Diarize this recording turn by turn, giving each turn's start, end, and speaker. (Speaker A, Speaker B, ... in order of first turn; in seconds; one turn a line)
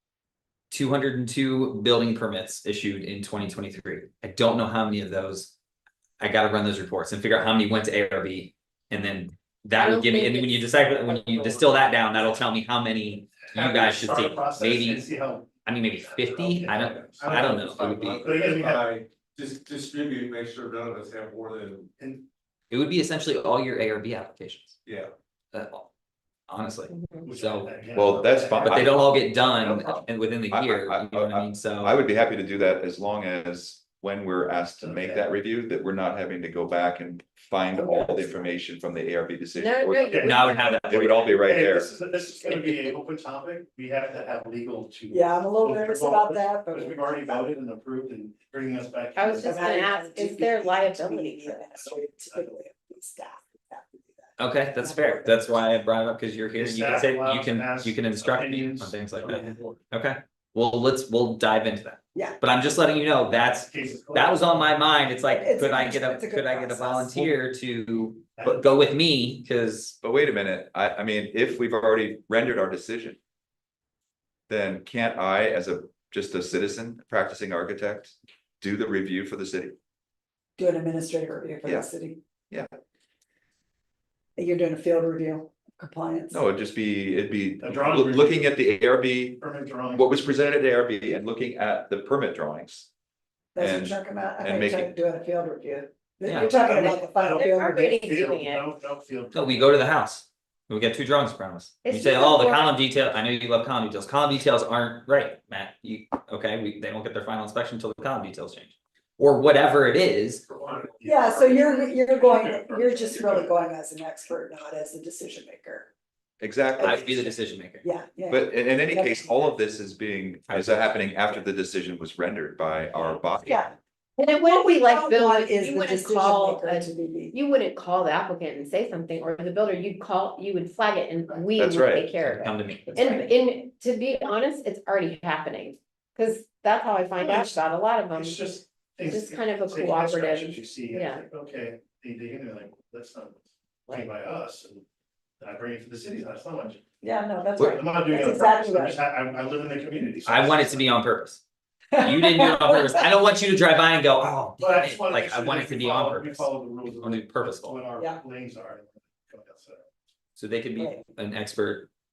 Speaker A: 0.7-5.5
Speaker A: 6.2-15.1
Speaker B: 9.8-12.2
Speaker C: 13.5-18.9
Speaker A: 15.7-18.1
Speaker D: 16.7-21.9
Speaker C: 22.0-22.3
Speaker A: 22.7-24.8
Speaker D: 24.9-25.1
Speaker A: 25.5-25.9
Speaker A: 26.5-32.0
Speaker B: 26.9-27.3
Speaker C: 27.2-28.8
Speaker E: 27.9-41.9
Speaker C: 34.8-35.4
Speaker F: 37.8-38.6
Speaker B: 39.6-40.8
Speaker C: 40.0-49.7
Speaker A: 40.2-41.4
Speaker F: 45.1-47.5
Speaker B: 49.2-51.7
Speaker F: 49.4-55.6
Speaker A: 54.4-70.0
Speaker C: 56.6-59.0
Speaker D: 59.3-59.6
Speaker C: 63.5-64.7
Speaker F: 65.3-67.3
Speaker C: 68.4-68.9
Speaker E: 70.0-73.2
Speaker E: 74.5-79.8
Speaker F: 80.6-82.2
Speaker F: 84.4-86.4
Speaker E: 86.3-89.4
Speaker C: 87.6-88.6
Speaker C: 89.4-90.5
Speaker E: 89.9-92.9
Speaker F: 93.5-98.2
Speaker E: 93.6-94.9
Speaker A: 96.2-96.5
Speaker C: 96.5-99.7
Speaker B: 97.3-98.7
Speaker A: 99.3-110.5
Speaker B: 101.8-102.7
Speaker C: 110.5-113.5
Speaker F: 111.0-115.9
Speaker E: 116.4-117.1
Speaker F: 116.8-119.5
Speaker A: 116.8-117.8
Speaker E: 118.3-123.6
Speaker A: 120.5-121.0
Speaker F: 123.5-127.4
Speaker B: 124.2-138.5
Speaker E: 131.6-132.1
Speaker A: 132.2-133.3
Speaker C: 137.2-137.6
Speaker C: 138.1-144.8
Speaker B: 139.1-141.2
Speaker C: 145.4-146.8
Speaker F: 147.0-149.0
Speaker C: 147.6-150.9
Speaker A: 150.3-151.4
Speaker F: 151.9-153.0
Speaker A: 152.0-157.8
Speaker C: 154.6-159.9
Speaker A: 160.4-161.9
Speaker F: 160.8-161.0